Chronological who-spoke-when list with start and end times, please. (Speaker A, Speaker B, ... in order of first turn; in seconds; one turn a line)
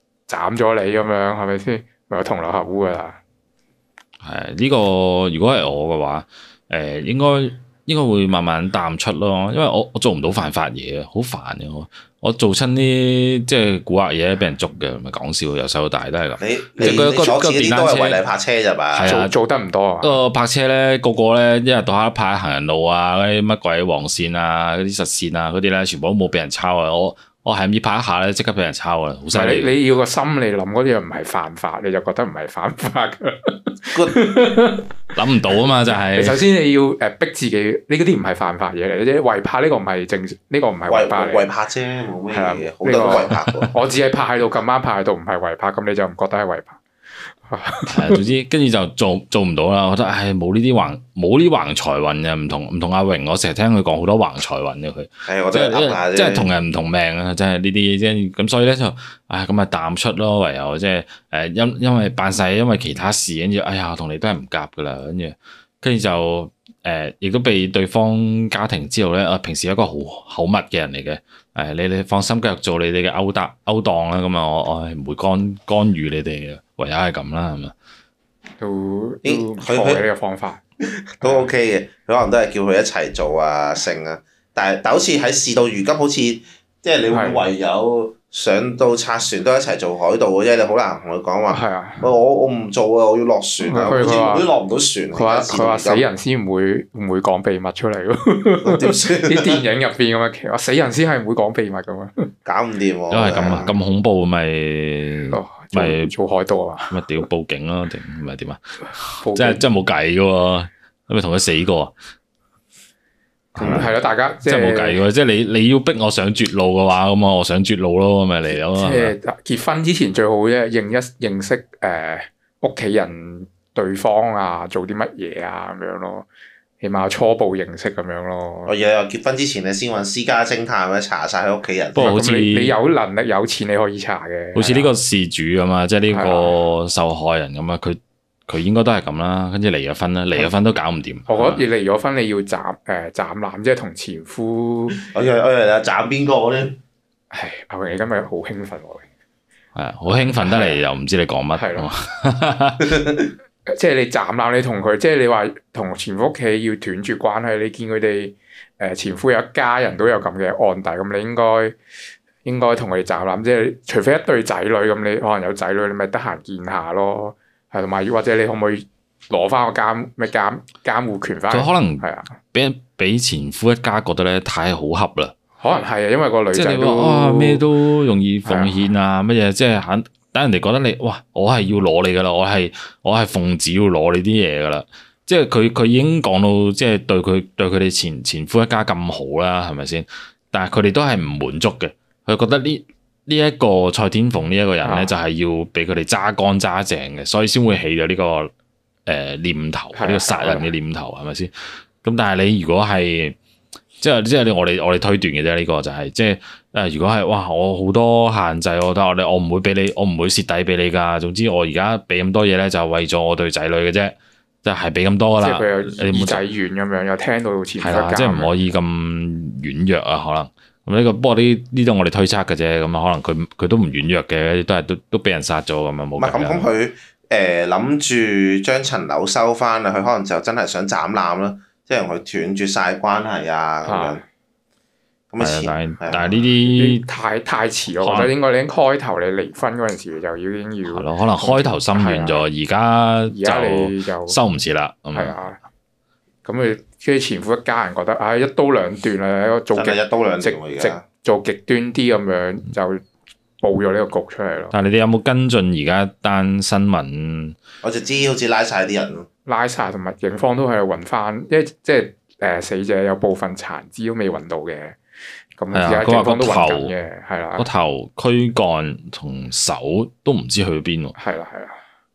Speaker A: 0.3-3.2
Speaker B: 4.2-18.2
Speaker C: 16.4-19.1
Speaker B: 18.9-19.4
Speaker A: 19.1-20.1
Speaker B: 20.0-29.8
Speaker A: 29.3-34.9
Speaker C: 33.9-34.2
Speaker B: 35.1-36.4
Speaker A: 36.1-41.5
Speaker C: 40.9-43.7
Speaker A: 42.3-46.8
Speaker A: 47.4-48.2
Speaker B: 47.9-77.7
Speaker C: 55.2-56.5
Speaker A: 78.6-80.6
Speaker C: 79.2-80.0
Speaker C: 80.8-96.0
Speaker A: 81.2-81.5
Speaker A: 87.1-87.5
Speaker A: 91.5-92.1
Speaker A: 93.6-94.5
Speaker A: 95.1-102.3
Speaker C: 98.6-99.6
Speaker C: 102.4-103.7
Speaker B: 103.1-106.1
Speaker A: 103.4-103.7
Speaker A: 105.3-107.0
Speaker B: 106.9-111.9
Speaker A: 109.2-109.6
Speaker B: 113.5-113.9
Speaker A: 113.5-115.0
Speaker B: 114.4-119.1
Speaker A: 118.7-126.3
Speaker A: 126.8-128.7
Speaker C: 128.7-132.1
Speaker A: 131.9-134.9
Speaker B: 132.0-132.8
Speaker B: 134.5-141.6
Speaker A: 136.1-136.6
Speaker A: 141.3-145.0
Speaker C: 144.9-146.8
Speaker A: 147.3-149.1
Speaker B: 149.8-152.9
Speaker A: 150.4-150.8
Speaker A: 151.5-151.9
Speaker C: 153.0-153.3
Speaker A: 153.7-161.8
Speaker A: 162.4-172.3
Speaker B: 171.5-175.3
Speaker A: 175.6-177.6
Speaker B: 176.5-198.5
Speaker A: 178.4-178.8
Speaker A: 194.8-195.1
Speaker B: 199.1-201.5
Speaker A: 199.9-200.7
Speaker B: 202.0-203.4
Speaker B: 204.0-216.4
Speaker A: 215.4-218.5
Speaker B: 217.8-226.7
Speaker C: 226.2-234.2
Speaker A: 233.8-234.2
Speaker C: 235.3-236.5
Speaker B: 235.4-237.0
Speaker A: 236.7-242.4
Speaker B: 238.0-238.3
Speaker B: 240.8-245.4
Speaker A: 243.3-244.4
Speaker A: 245.1-245.6
Speaker A: 246.4-253.0
Speaker C: 249.7-251.0
Speaker A: 253.6-254.7
Speaker B: 254.7-257.6
Speaker C: 257.8-259.3
Speaker A: 259.5-265.0
Speaker A: 265.6-267.7
Speaker B: 265.7-266.9
Speaker B: 267.6-271.1
Speaker A: 271.1-271.8